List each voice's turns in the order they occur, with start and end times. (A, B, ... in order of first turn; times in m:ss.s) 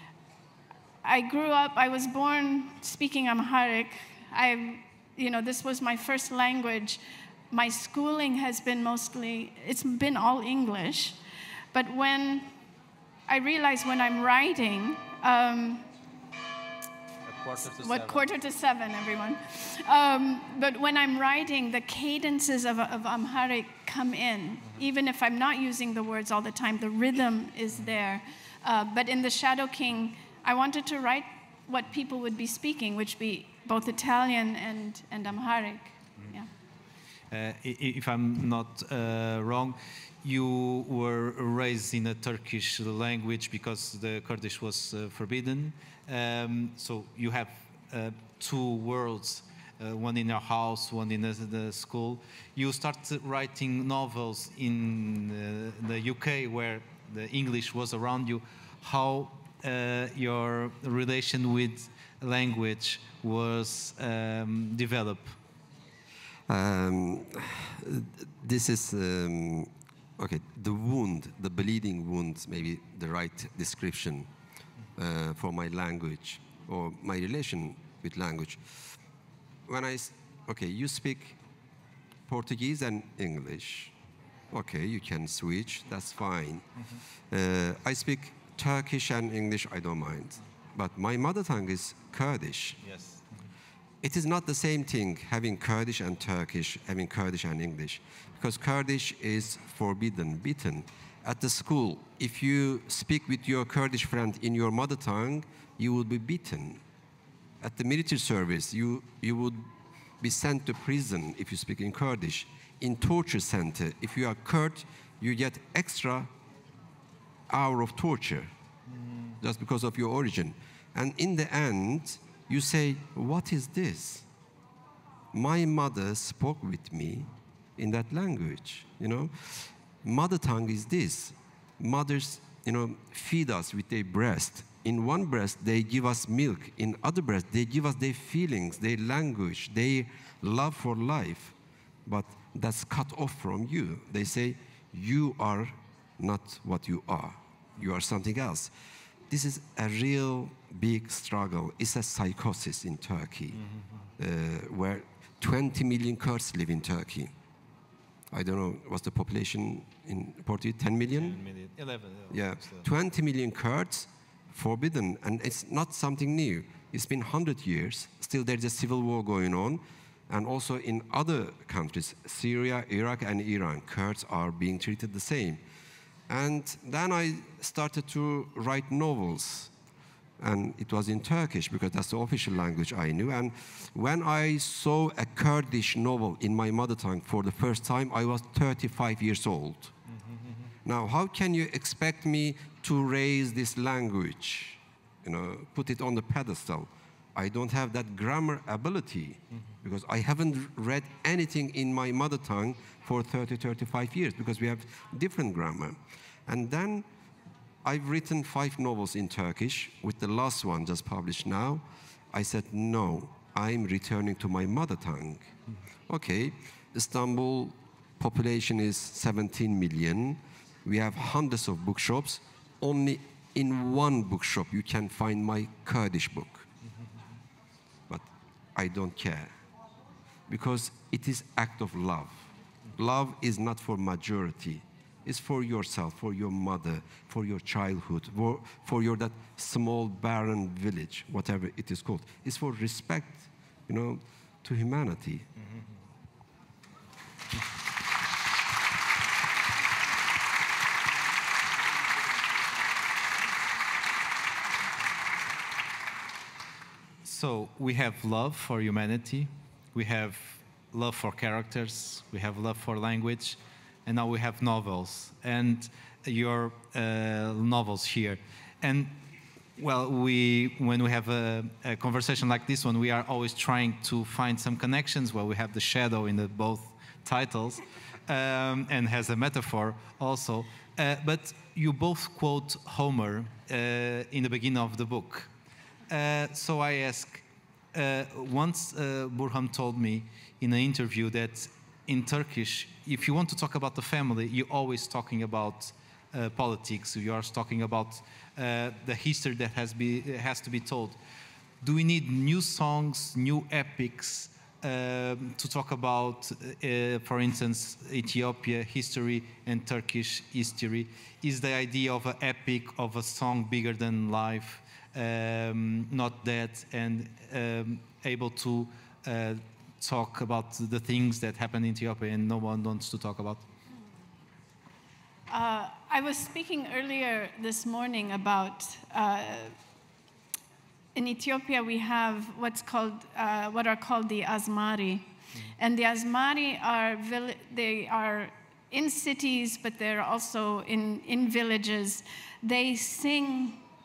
0:01.0-0:11.2 A
0:11.7-0:12.5 A
0:13.3-0:15.9 A
0:17.3-0:18.3 B
0:17.8-0:36.5 A
0:37.3-1:05.4 B
1:06.5-1:14.3 C
1:15.0-1:18.7 C
1:19.7-1:21.4 C
1:22.3-1:23.9 C
1:24.5-1:26.7 C
1:27.3-1:32.8 C
1:32.9-1:33.2 B
1:34.0-1:46.8 C
1:47.6-1:56.3 C
1:57.5-1:58.5 C
1:59.4-2:04.3 C
2:05.3-2:21.5 C
2:22.1-2:28.7 C
2:29.3-2:33.6 C
2:33.6-2:33.9 B
2:34.2-2:37.3 C
2:38.3-2:41.4 C
2:41.1-2:42.8 B
2:42.3-2:55.6 C
2:56.3-2:59.7 C
3:00.4-3:09.9 C
3:10.8-3:27.0 C
3:27.8-3:35.5 C
3:36.1-3:46.7 C
3:48.1-3:49.5 C
3:50.5-4:05.5 C
4:17.2-4:29.1 B
4:29.8-4:45.5 B
4:46.1-5:01.2 B
5:01.8-5:23.6 B
5:25.5-5:29.8 A
5:31.2-5:43.8 A